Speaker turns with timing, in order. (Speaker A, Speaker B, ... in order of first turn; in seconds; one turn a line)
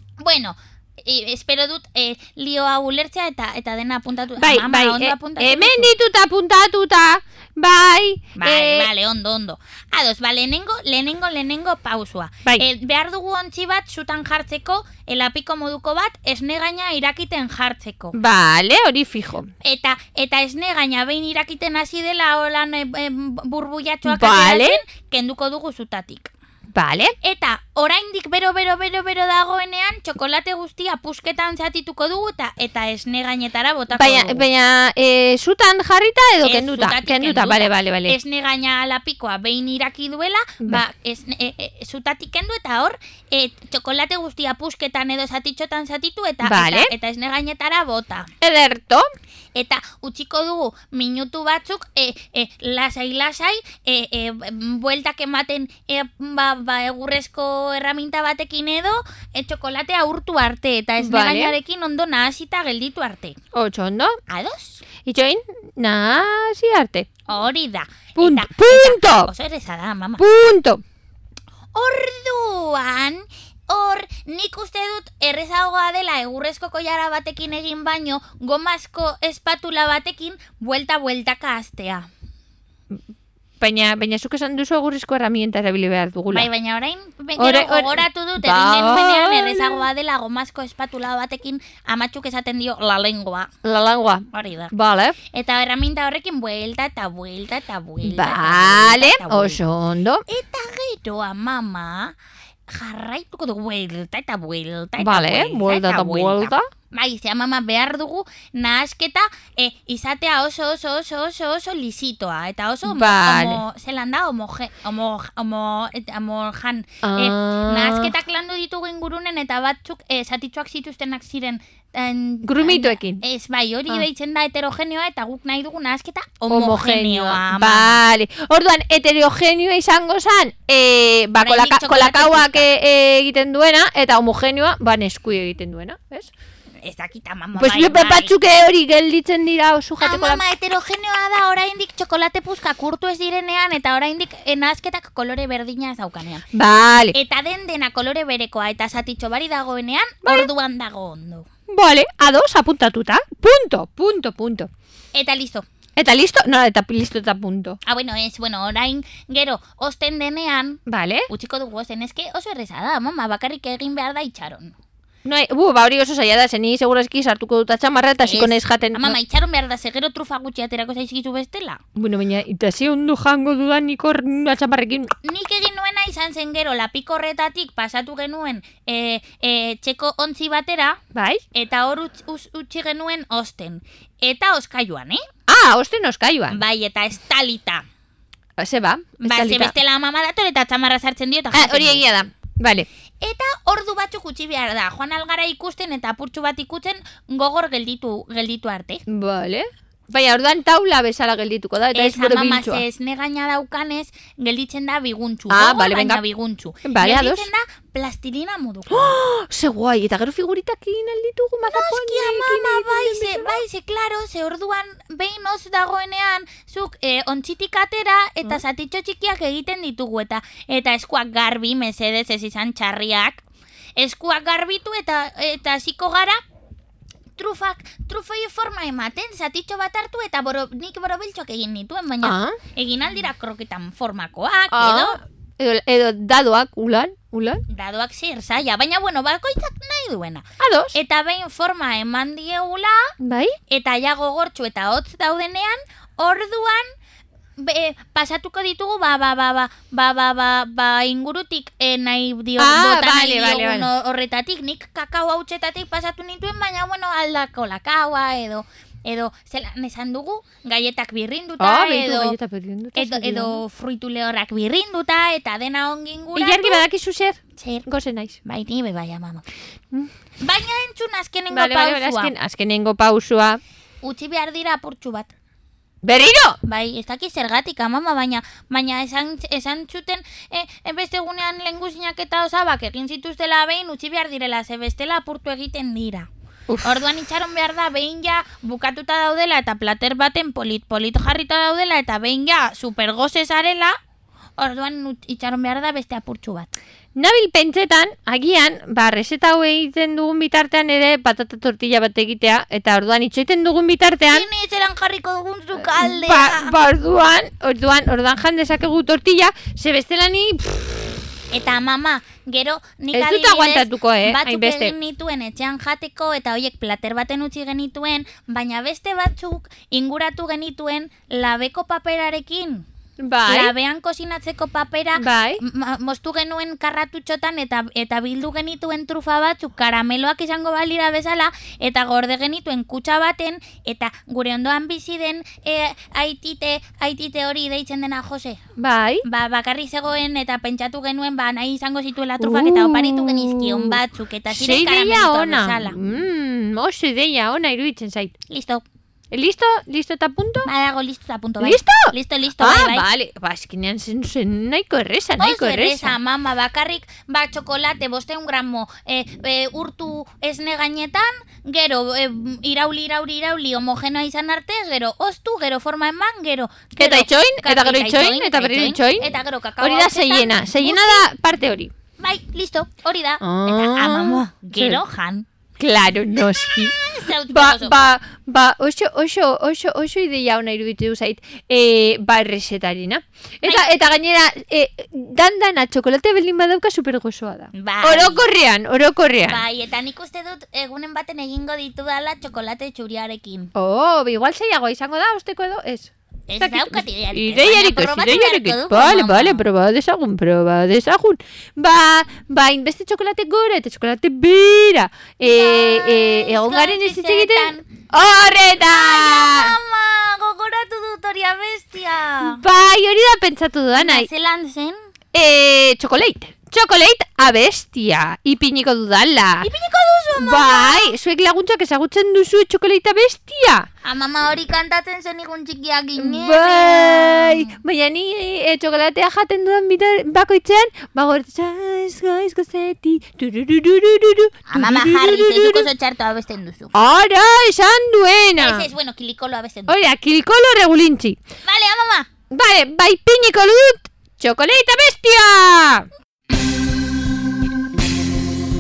Speaker A: 0.2-5.9
Speaker B: 4.4-8.9
Speaker A: 8.4-18.2
Speaker B: 18.1-19.5
Speaker A: 19.6-26.3
Speaker B: 24.1-24.8
Speaker B: 26.7-27.1
Speaker A: 27.2-34.4
Speaker B: 34.0-38.2
Speaker A: 36.4-48.3
Speaker B: 46.4-46.9
Speaker B: 48.4-49.1
Speaker A: 49.5-63.4
Speaker B: 61.0-61.5
Speaker B: 63.5-64.2
Speaker A: 64.3-64.8
Speaker B: 65.0-67.1
Speaker A: 67.3-70.2
Speaker B: 68.2-69.3
Speaker B: 70.2-70.8
Speaker A: 71.8-82.1
Speaker B: 83.6-86.5
Speaker A: 86.3-93.5
Speaker B: 87.4-89.9
Speaker B: 93.6-95.2
Speaker A: 94.3-94.7
Speaker A: 95.3-99.6
Speaker B: 98.0-100.2
Speaker A: 100.3-102.1
Speaker A: 102.7-128.0
Speaker B: 105.0-106.7
Speaker B: 112.8-113.6
Speaker B: 117.0-118.1
Speaker B: 122.4-123.2
Speaker B: 126.5-136.3
Speaker A: 131.4-132.7
Speaker A: 136.8-138.3
Speaker B: 137.6-140.4
Speaker A: 140.0-146.4
Speaker B: 146.5-147.2
Speaker A: 147.1-151.5
Speaker B: 150.2-150.5
Speaker B: 151.7-154.7
Speaker A: 155.1-155.7
Speaker B: 156.0-157.8
Speaker A: 157.9-164.8
Speaker B: 160.9-161.3
Speaker B: 165.2-169.2
Speaker A: 168.2-171.8
Speaker B: 172.0-175.1
Speaker A: 175.2-181.0
Speaker B: 181.1-181.4
Speaker A: 181.5-185.2
Speaker B: 185.5-186.6
Speaker A: 186.5-187.8
Speaker B: 188.6-189.7
Speaker A: 189.2-192.0
Speaker B: 191.5-192.9
Speaker A: 193.2-199.0
Speaker B: 199.1-202.8
Speaker A: 201.9-209.2
Speaker B: 205.5-206.2
Speaker B: 206.8-207.5
Speaker B: 208.9-213.6
Speaker A: 211.7-223.4
Speaker A: 224.0-226.4
Speaker A: 227.4-235.2
Speaker B: 232.2-232.6
Speaker B: 234.7-237.6
Speaker A: 237.7-243.1
Speaker B: 240.6-241.0
Speaker B: 243.2-243.6
Speaker A: 243.7-246.9
Speaker A: 247.6-262.4
Speaker B: 252.6-253.9
Speaker B: 261.6-263.6
Speaker A: 263.0-266.8
Speaker B: 266.4-268.4
Speaker A: 267.6-267.9
Speaker A: 268.4-269.4
Speaker A: 270.4-272.3
Speaker B: 271.5-273.6
Speaker A: 274.0-275.3
Speaker B: 276.0-276.6
Speaker A: 276.6-286.3
Speaker B: 286.7-287.0
Speaker A: 286.8-294.0
Speaker A: 294.6-296.7
Speaker B: 297.2-304.5
Speaker A: 304.3-306.8
Speaker B: 305.9-311.1
Speaker A: 311.5-322.9
Speaker B: 313.1-314.9
Speaker B: 323.2-323.7
Speaker A: 323.5-338.6
Speaker B: 325.2-325.6
Speaker B: 338.8-339.2
Speaker A: 339.2-346.0
Speaker B: 342.4-344.0
Speaker B: 344.5-348.3
Speaker A: 348.5-348.8
Speaker B: 349.3-350.7
Speaker A: 350.6-353.1
Speaker B: 351.6-356.1
Speaker A: 355.4-371.2
Speaker B: 367.0-369.3
Speaker B: 369.8-371.9
Speaker A: 372.2-375.5
Speaker B: 373.4-375.0
Speaker B: 375.8-377.0
Speaker A: 376.6-378.0
Speaker B: 377.5-389.6
Speaker A: 387.7-388.4
Speaker A: 389.4-393.7
Speaker B: 393.8-409.8
Speaker A: 396.5-399.6
Speaker A: 405.4-407.8
Speaker A: 408.9-412.6
Speaker B: 412.4-414.3
Speaker A: 413.9-415.0
Speaker B: 415.3-419.7
Speaker A: 419.6-421.1
Speaker B: 420.4-423.9
Speaker A: 424.0-427.7
Speaker B: 426.2-435.9
Speaker A: 434.7-436.9
Speaker B: 436.9-438.9
Speaker A: 438.6-440.0
Speaker B: 439.9-441.4
Speaker A: 441.6-442.3
Speaker B: 442.5-446.1